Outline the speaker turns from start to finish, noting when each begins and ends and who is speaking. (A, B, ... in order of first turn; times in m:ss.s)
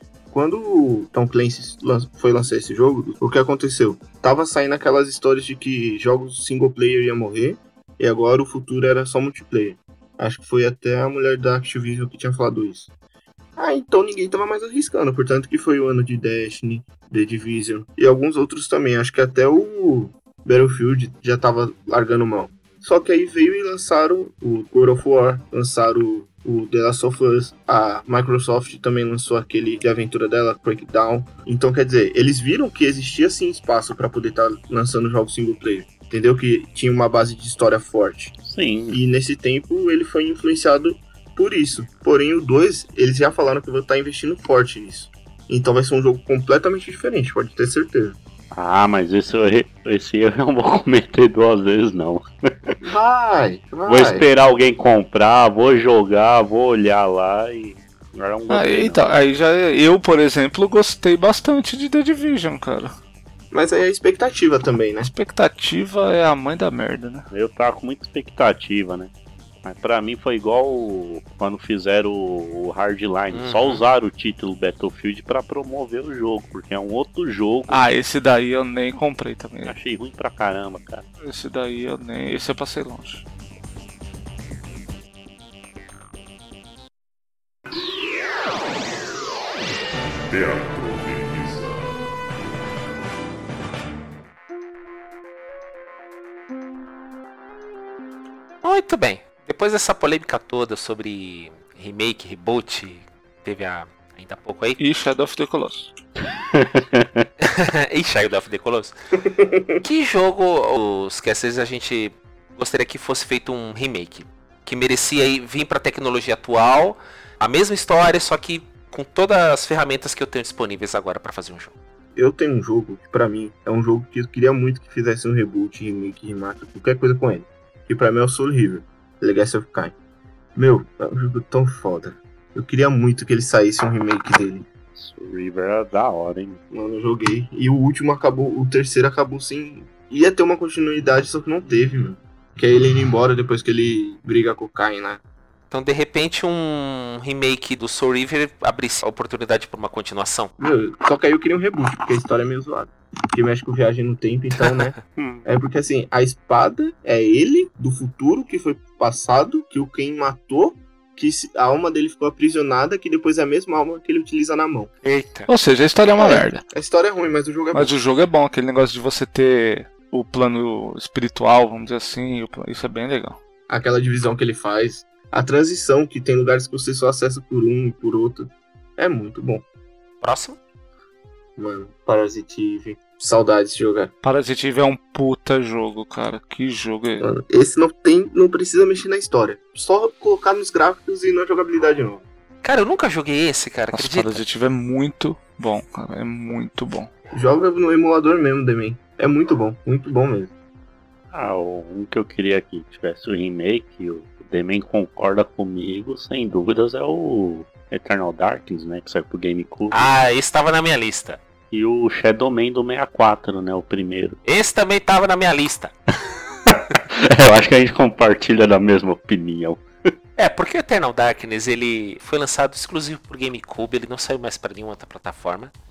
0:00.3-0:12.9 A
0:13.6-0:38.4 A
0:38.4-0:39.0 B
0:38.9-0:48.2 A
0:48.5-0:52.8 B
0:52.8-0:54.3 A
0:53.9-0:59.1 B
0:58.5-1:02.9 C
1:03.5-1:05.1 A
1:05.0-1:07.3 C
1:07.3-1:09.1 B
1:09.6-1:17.8 B
1:13.3-1:13.8 D
1:17.7-1:19.8 C
1:19.7-1:21.0 B
1:21.2-1:23.2 C
1:30.3-1:31.8 B
1:38.6-1:44.8 D
1:44.8-1:45.9 C
1:46.5-1:47.3 B
1:47.4-1:49.0 D
1:49.3-1:49.8 A
1:49.8-2:01.7 D
2:02.2-2:10.0 A
2:10.6-2:14.7 A
2:15.0-2:16.6 B
2:16.7-2:25.2 A
2:25.7-2:30.5 D
2:30.6-2:34.9 A
2:34.6-2:34.9 D
2:35.2-2:35.5 B
2:35.5-2:44.9 A
2:45.0-2:45.5 D
2:45.5-2:46.6 C
2:46.2-2:48.0 A
2:47.7-2:53.4 C
2:53.7-2:59.6 A
3:00.2-3:00.6 D
3:01.6-3:04.1 A
3:04.2-3:07.3 C
3:07.2-3:12.2 A
3:12.6-3:14.4 D
3:13.9-3:17.1 C
3:17.3-3:20.5 A
3:21.3-3:30.1 B
3:29.9-3:31.4 D
3:31.7-3:34.4 B
3:34.4-3:35.9 D
3:36.7-3:39.8 B
3:40.4-3:45.7 D